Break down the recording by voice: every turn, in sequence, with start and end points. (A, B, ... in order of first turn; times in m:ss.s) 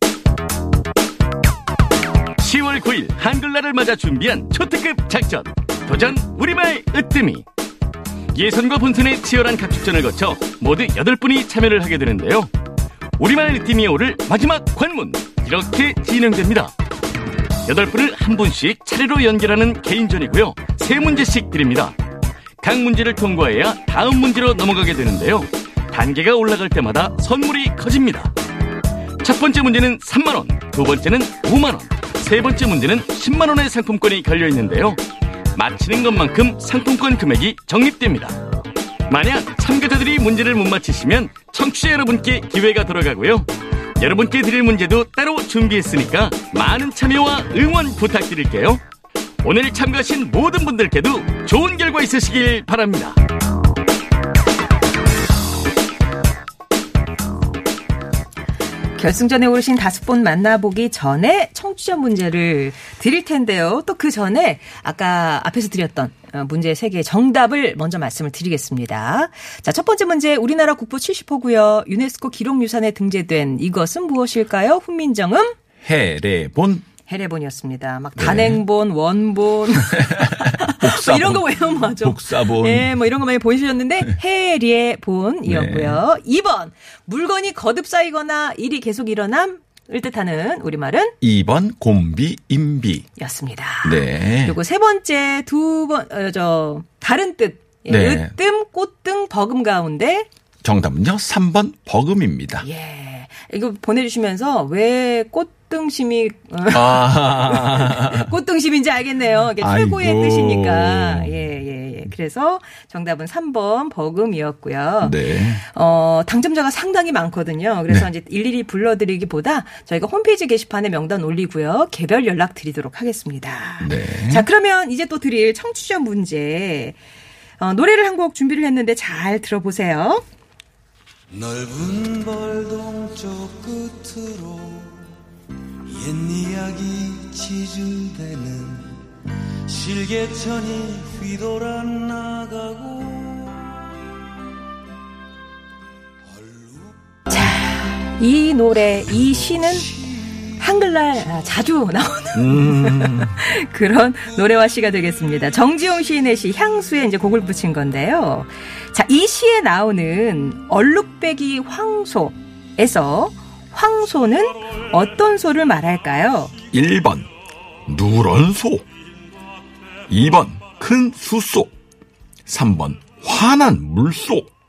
0:02.4-0:07.5 A
0:08.3-0:12.5 A
0:13.2-0:16.7 A
0:17.7-0:22.0 A
0:22.6-0:28.3 A
0:29.2-0:35.0 A
0:35.6-0:38.4 A
0:39.1-0:48.8 A
0:49.4-0:53.2 A
0:59.0-1:15.6 B
1:15.8-1:16.9 C
1:17.1-1:31.2 B
1:18.2-1:18.6 C
1:19.9-1:23.1 C
1:25.4-1:26.0 C
1:31.2-1:33.1 C
1:33.2-1:40.3 B
1:33.8-1:34.6 C
1:37.9-1:38.4 C
1:40.6-1:42.7 C
1:42.6-2:07.0 B
1:46.7-1:48.3 C
1:49.6-1:51.4 C
1:55.0-1:55.6 C
2:03.8-2:04.5 C
2:07.6-2:10.2 B
2:11.3-2:15.1 D
2:15.9-2:19.0 D
2:19.7-2:23.8 D
2:26.3-2:27.0 D
2:27.3-2:29.9 B
2:29.2-2:30.5 D
2:30.6-2:46.5 B
2:32.3-2:33.4 C
2:46.7-2:47.3 C
2:47.9-2:48.8 C
2:50.1-2:51.7 C
2:52.5-2:54.5 C